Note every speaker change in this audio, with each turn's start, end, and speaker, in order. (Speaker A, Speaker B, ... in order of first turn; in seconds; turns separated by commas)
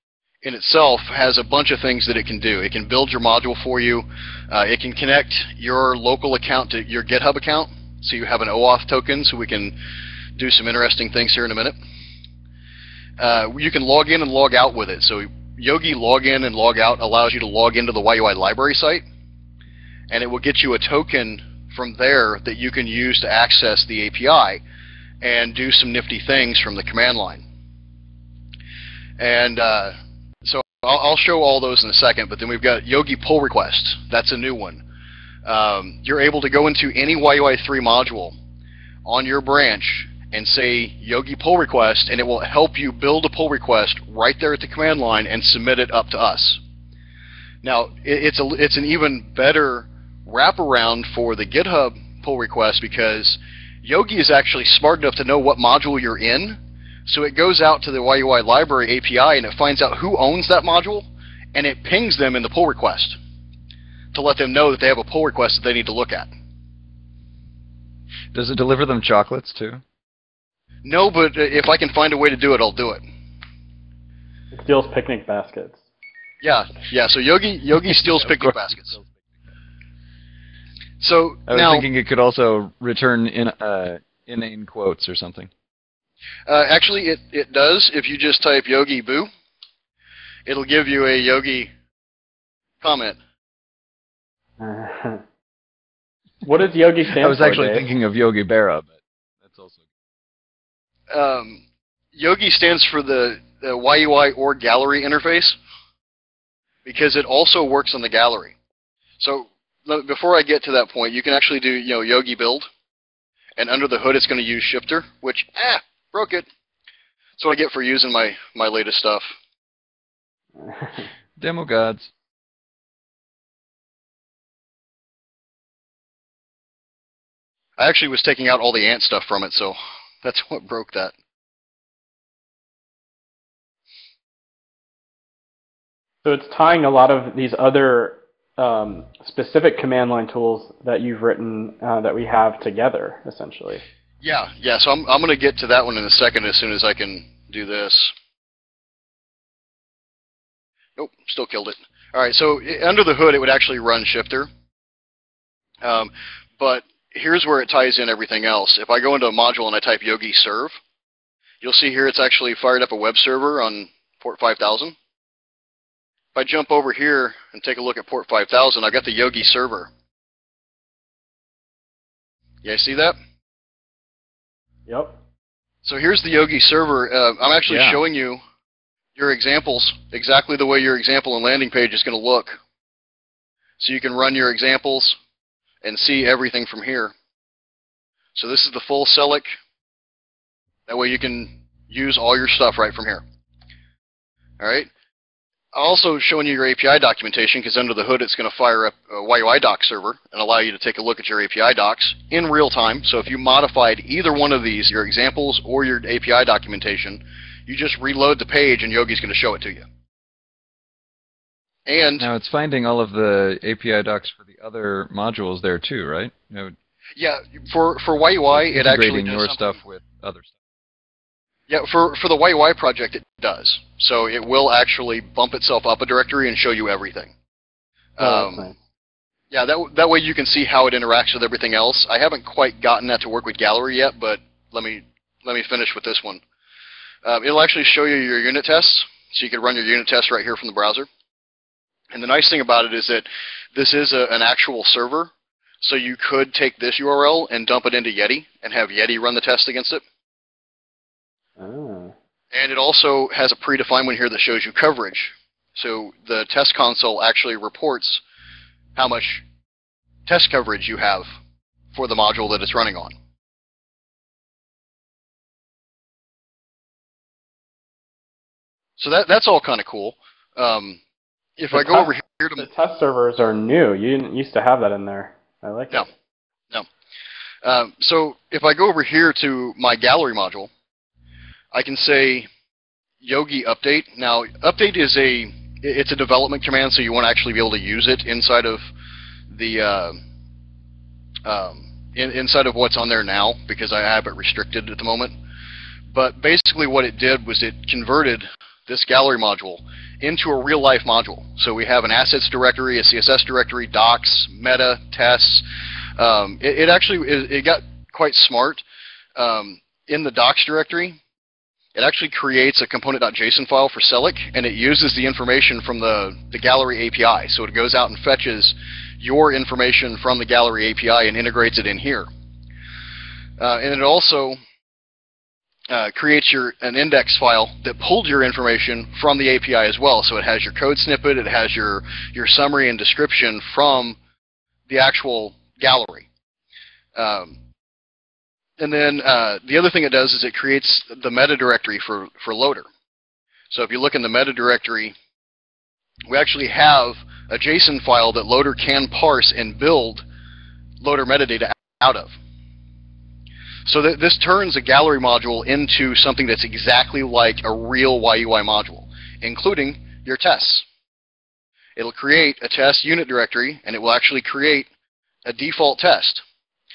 Speaker A: 0.4-9.8, Speaker A: 10.4-11.8, Speaker A: 13.2-19.0, Speaker A: 20.1-24.6, Speaker A: 25.2-27.4, Speaker A: 29.2-34.8, Speaker A: 35.5-38.4, Speaker A: 39.0-46.6, Speaker A: 47.6-63.2, Speaker A: 64.1-66.3, Speaker B: 68.3-69.8, Speaker A: 70.8-73.0, Speaker C: 74.5-75.8, Speaker A: 76.4-78.9, Speaker B: 78.2-79.3, Speaker A: 81.0-81.9, Speaker B: 81.5-85.5, Speaker A: 86.5-89.3, Speaker A: 90.5-91.7, Speaker A: 92.8-93.2, Speaker C: 94.6-95.2, Speaker C: 96.4-97.8, Speaker B: 97.1-99.8, Speaker A: 101.1-101.6, Speaker A: 102.1-105.6, Speaker A: 106.8-108.5, Speaker A: 109.2-112.7, Speaker A: 113.6-116.5, Speaker A: 117.4-119.3, Speaker C: 120.6-121.0, Speaker B: 121.4-122.1, Speaker A: 127.8-131.1, Speaker C: 136.2-143.8, Speaker A: 144.2-148.2, Speaker A: 151.0-154.5, Speaker A: 155.8-160.8, Speaker A: 161.6-165.0, Speaker A: 166.3-169.9, Speaker A: 172.6-173.2, Speaker C: 174.9-175.2, Speaker A: 175.8-178.4, Speaker B: 177.7-178.0, Speaker A: 179.2-182.6, Speaker A: 183.8-185.2, Speaker A: 185.8-187.1, Speaker A: 188.3-189.5, Speaker A: 190.9-193.2, Speaker A: 194.6-194.9, Speaker A: 195.7-209.8, Speaker A: 211.9-212.3, Speaker B: 212.2-216.8, Speaker A: 217.2-219.7, Speaker B: 218.5-220.5, Speaker A: 221.7-227.3, Speaker A: 228.2-228.7, Speaker C: 228.2-228.8, Speaker A: 229.5-236.4, Speaker A: 237.2-241.1, Speaker A: 242.1-250.0, Speaker C: 251.6-252.1, Speaker A: 252.5-258.2, Speaker A: 258.9-259.4, Speaker A: 260.3-261.2, Speaker A: 261.9-263.1, Speaker A: 269.0-271.0, Speaker A: 271.6-272.7, Speaker C: 271.7-276.1, Speaker A: 277.6-280.7, Speaker A: 281.7-282.5, Speaker A: 283.2-288.8, Speaker A: 289.5-290.2, Speaker A: 291.4-295.3, Speaker A: 296.1-305.7, Speaker A: 306.2-308.8, Speaker A: 309.4-311.2, Speaker A: 311.9-322.3, Speaker A: 323.6-324.6, Speaker A: 325.9-334.2, Speaker A: 334.9-336.3, Speaker A: 337.1-337.6, Speaker A: 338.8-342.9, Speaker A: 343.7-345.1, Speaker A: 346.3-350.2, Speaker A: 351.0-352.3, Speaker A: 353.9-360.9, Speaker A: 362.0-364.9, Speaker A: 365.4-366.4